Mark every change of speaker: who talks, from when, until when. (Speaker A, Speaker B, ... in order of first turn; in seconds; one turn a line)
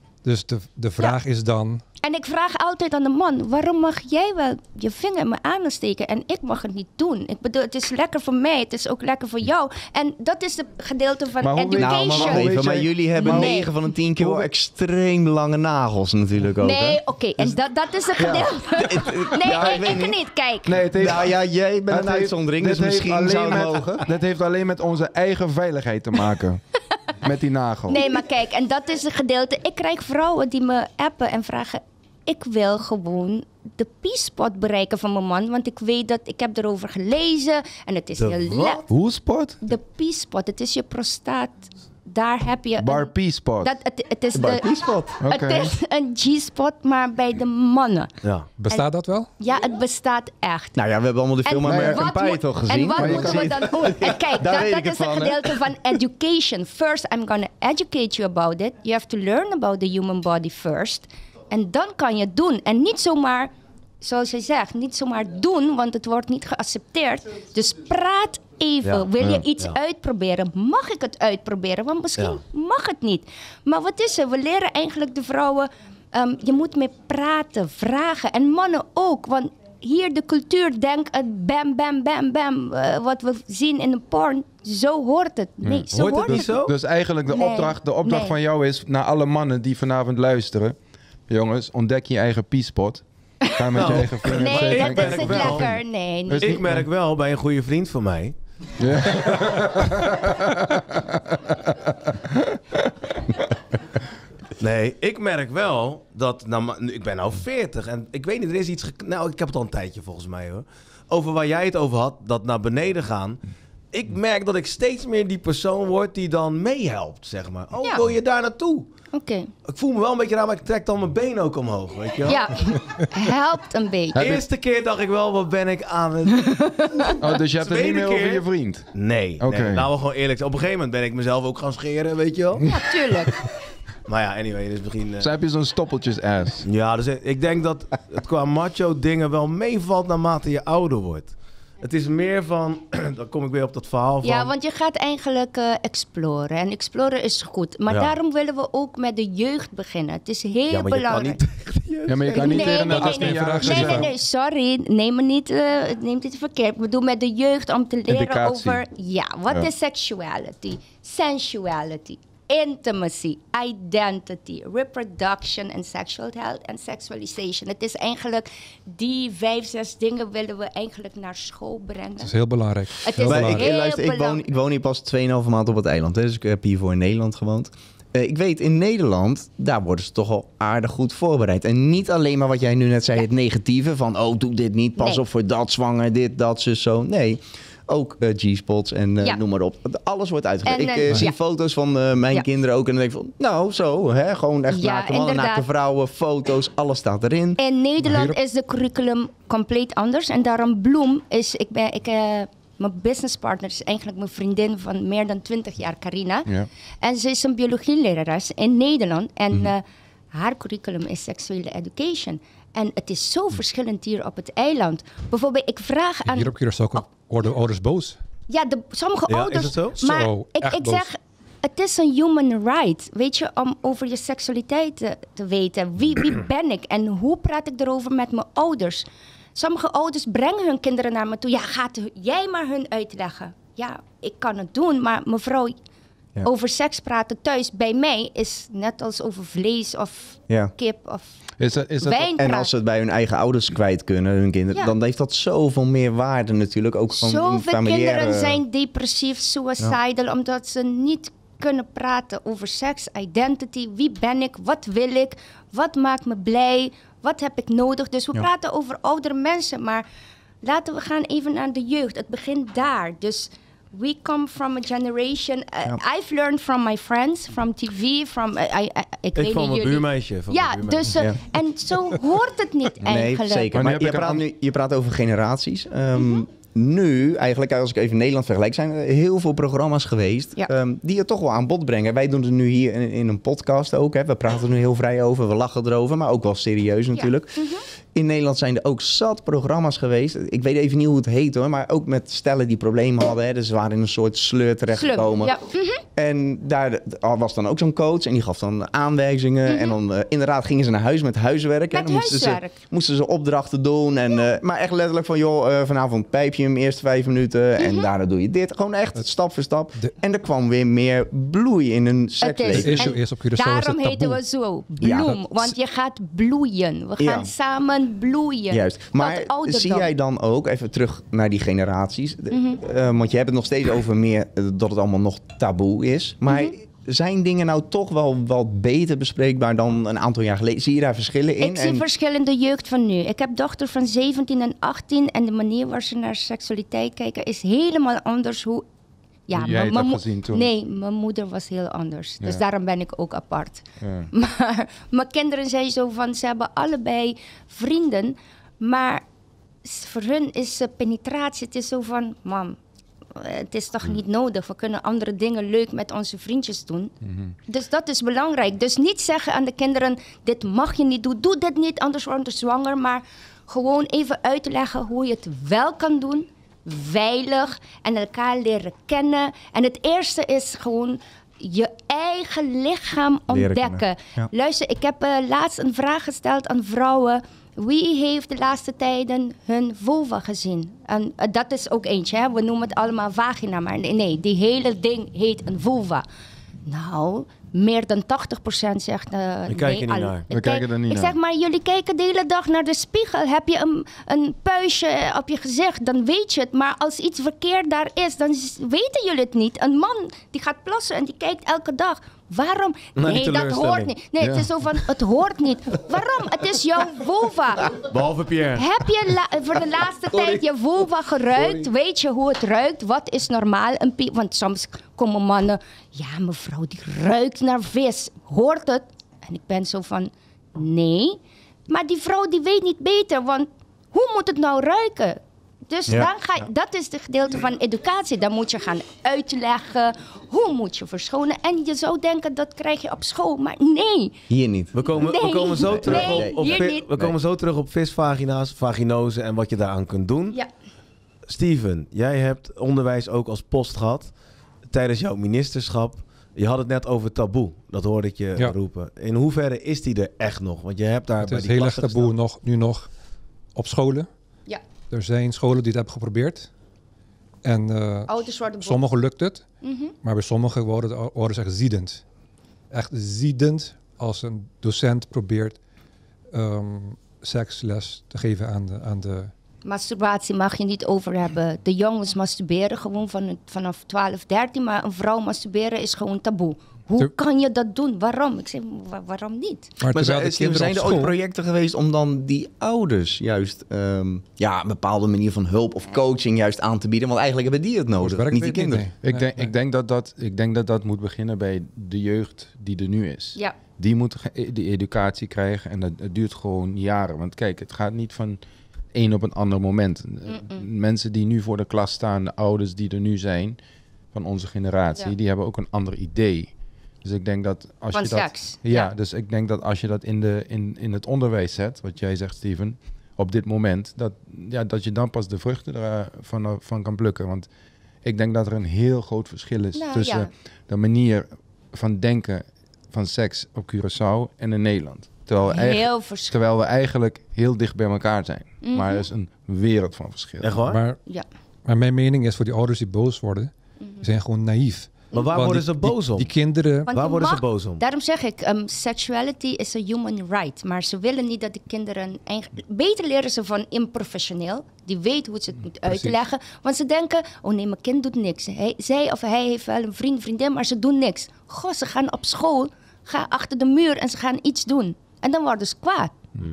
Speaker A: 0.2-1.8
Speaker B: 2.0-12.5
Speaker C: 11.4-14.5
Speaker D: 11.7-17.0
Speaker B: 13.2-13.7
Speaker B: 16.6-20.8
Speaker C: 18.2-18.5
Speaker D: 18.3-20.2
Speaker C: 19.4-19.9
Speaker C: 20.6-21.4
Speaker D: 20.9-24.0
Speaker C: 21.9-26.6
Speaker C: 27.2-28.0
Speaker B: 27.9-38.8
Speaker E: 38.2-38.9
Speaker C: 38.9-39.6
Speaker B: 39.6-48.1
Speaker C: 42.8-43.8
Speaker D: 44.3-45.2
Speaker C: 45.2-45.7
Speaker A: 48.6-49.3
Speaker B: 49.4-50.8
Speaker D: 50.8-55.5
Speaker B: 51.5-86.6
Speaker C: 51.6-52.1
Speaker C: 53.0-54.0
Speaker E: 68.8-69.8
Speaker C: 85.6-96.9
Speaker E: 85.9-86.7
Speaker B: 87.3-88.4
Speaker B: 93.4-96.5
Speaker E: 93.8-95.7
Speaker E: 96.4-98.4
Speaker C: 98.8-102.9
Speaker E: 104.6-113.4
Speaker E: 113.9-118.9
Speaker B: 119.1-119.5
Speaker E: 119.7-122.5
Speaker B: 122.3-124.4
Speaker C: 124.1-124.4
Speaker E: 124.2-132.7
Speaker B: 126.4-127.2
Speaker C: 127.2-128.9
Speaker C: 129.4-129.9
Speaker B: 132.7-133.4
Speaker E: 134.1-135.3
Speaker C: 135.2-136.7
Speaker E: 136.7-144.5
Speaker B: 144.2-151.4
Speaker E: 147.9-148.2
Speaker E: 150.7-152.8
Speaker C: 152.1-154.1
Speaker B: 152.3-172.4
Speaker A: 152.8-154.1
Speaker C: 158.2-158.8
Speaker A: 172.2-173.7
Speaker B: 173.0-174.4
Speaker D: 173.2-197.6
Speaker B: 185.0-185.2
Speaker B: 190.7-191.4
Speaker B: 194.7-195.7
Speaker B: 197.6-206.5
Speaker A: 198.0-198.4
Speaker B: 207.0-209.8
Speaker B: 210.3-217.0
Speaker A: 216.3-218.2
Speaker B: 218.5-229.1
Speaker E: 219.3-220.0
Speaker A: 220.0-221.1
Speaker B: 229.6-235.7
Speaker B: 236.4-241.4
Speaker C: 241.6-242.3
Speaker B: 242.0-242.7
Speaker D: 242.4-248.6
Speaker B: 247.2-260.1
Speaker B: 260.6-273.8
Speaker E: 269.4-271.1
Speaker D: 273.0-295.6
Speaker C: 273.7-274.5
Speaker B: 287.1-287.8
Speaker B: 294.9-296.0
Speaker D: 296.1-313.2
Speaker B: 299.7-300.0
Speaker B: 301.9-302.8
Speaker B: 307.8-308.1
Speaker B: 312.4-320.1
Speaker A: 312.7-314.4
Speaker D: 315.0-315.4
Speaker D: 317.2-317.5
Speaker D: 318.7-332.0
Speaker B: 322.5-322.8
Speaker B: 326.5-326.7
Speaker B: 331.6-338.9
Speaker B: 339.5-349.2
Speaker C: 339.5-340.7
Speaker C: 344.0-344.3
Speaker B: 349.8-352.8
Speaker B: 353.4-357.1
Speaker B: 357.7-386.2
Speaker D: 373.5-374.5
Speaker B: 386.9-408.0
Speaker E: 389.7-390.4
Speaker C: 390.5-391.4
Speaker E: 403.2-404.1
Speaker C: 404.4-404.7
Speaker E: 408.0-408.9
Speaker B: 408.8-434.4
Speaker E: 410.3-410.6
Speaker E: 411.6-411.9
Speaker D: 434.5-434.9
Speaker E: 434.9-440.6
Speaker B: 435.1-437.1
Speaker D: 435.9-437.3
Speaker E: 441.5-444.3
Speaker E: 444.9-452.3
Speaker A: 451.4-453.1
Speaker A: 453.8-454.3
Speaker A: 455.1-456.7
Speaker A: 457.6-459.6
Speaker B: 458.3-459.0
Speaker B: 459.8-460.1
Speaker A: 460.2-462.2
Speaker A: 462.9-465.8
Speaker A: 466.5-469.5
Speaker B: 469.9-479.9
Speaker A: 480.0-481.4
Speaker D: 480.1-489.1
Speaker A: 488.2-489.7
Speaker C: 489.2-498.6
Speaker C: 499.1-503.8
Speaker B: 500.5-500.8
Speaker C: 504.3-506.7
Speaker C: 507.2-517.7
Speaker B: 508.1-509.1
Speaker C: 518.2-530.8
Speaker B: 520.0-520.5
Speaker B: 525.7-526.6
Speaker B: 528.8-529.3
Speaker E: 530.6-531.0
Speaker A: 530.9-531.2
Speaker A: 531.9-537.1
Speaker E: 535.3-536.5
Speaker B: 537.1-556.3
Speaker E: 537.1-538.0
Speaker A: 546.1-546.4